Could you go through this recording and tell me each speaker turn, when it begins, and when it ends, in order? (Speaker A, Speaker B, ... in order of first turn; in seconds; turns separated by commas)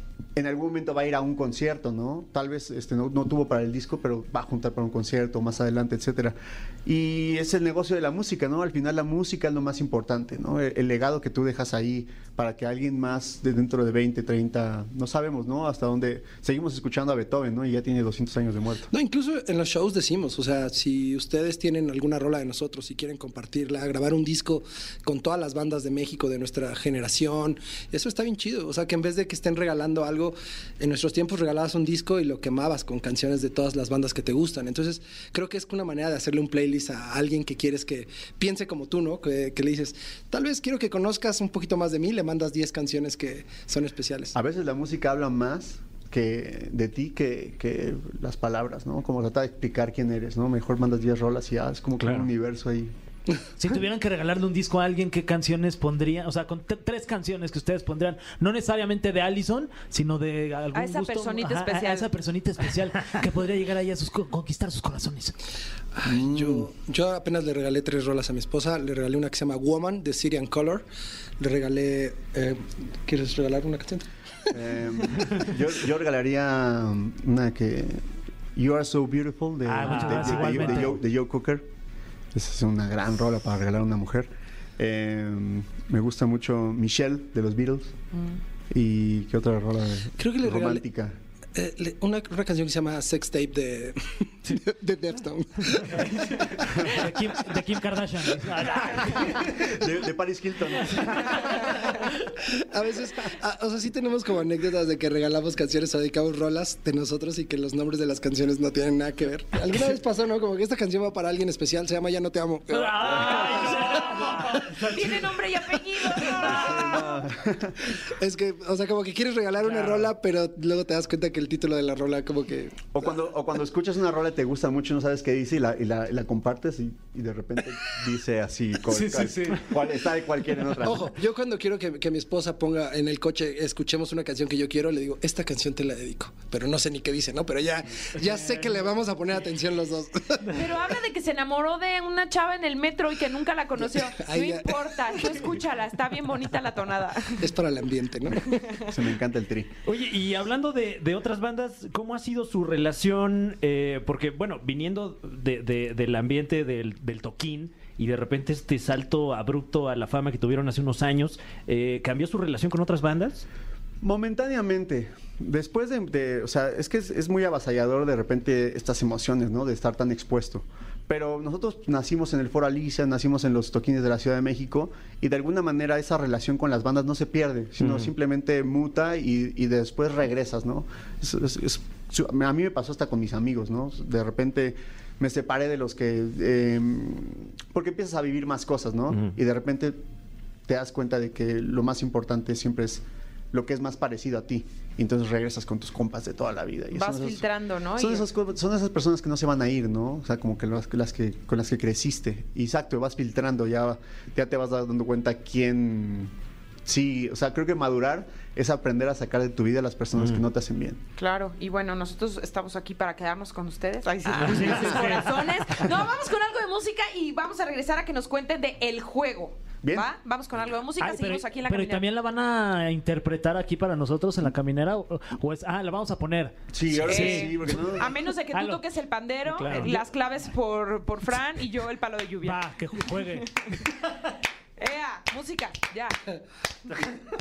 Speaker A: 0.3-18.9, Speaker B: 18.9-44.3, Speaker A: 44.3-52.9, Speaker C: 52.0-52.3, Speaker D: 53.6-65.4, Speaker E: 60.7-62.1, Speaker B: 65.9-70.8, Speaker A: 66.0-66.7, Speaker B: 71.4-74.5, Speaker A: 74.5-81.7, Speaker D: 79.7-81.0, Speaker A: 82.3-88.0, Speaker A: 88.7-91.2, Speaker B: 90.2-90.8, Speaker B: 91.5-96.9, Speaker D: 96.0-99.6, Speaker A: 99.2-101.7, Speaker B: 102.5-113.9, Speaker D: 112.7-115.3, Speaker E: 113.1-117.2, Speaker A: 116.3-118.0, Speaker B: 118.0-122.9, Speaker A: 122.9-131.2, Speaker B: 128.9-129.7, Speaker B: 130.8-140.8, Speaker E: 140.5-147.4, Speaker B: 143.8-145.4, Speaker B: 147.4-148.7, Speaker A: 148.8-149.7, Speaker C: 149.8-163.4, Speaker A: 164.0-190.0, Speaker A: 190.7-206.3, Speaker E: 196.9-198.2, Speaker A: 206.8-211.0, Speaker E: 211.2-222.1, Speaker C: 214.3-215.2, Speaker D: 214.4-215.3, Speaker A: 219.8-220.1, Speaker D: 221.0-228.0, Speaker A: 226.7-228.2, Speaker E: 227.1-232.6, Speaker D: 228.5-228.8, Speaker D: 229.5-230.0, Speaker C: 229.6-230.0, Speaker D: 232.4-233.5, Speaker E: 234.8-236.4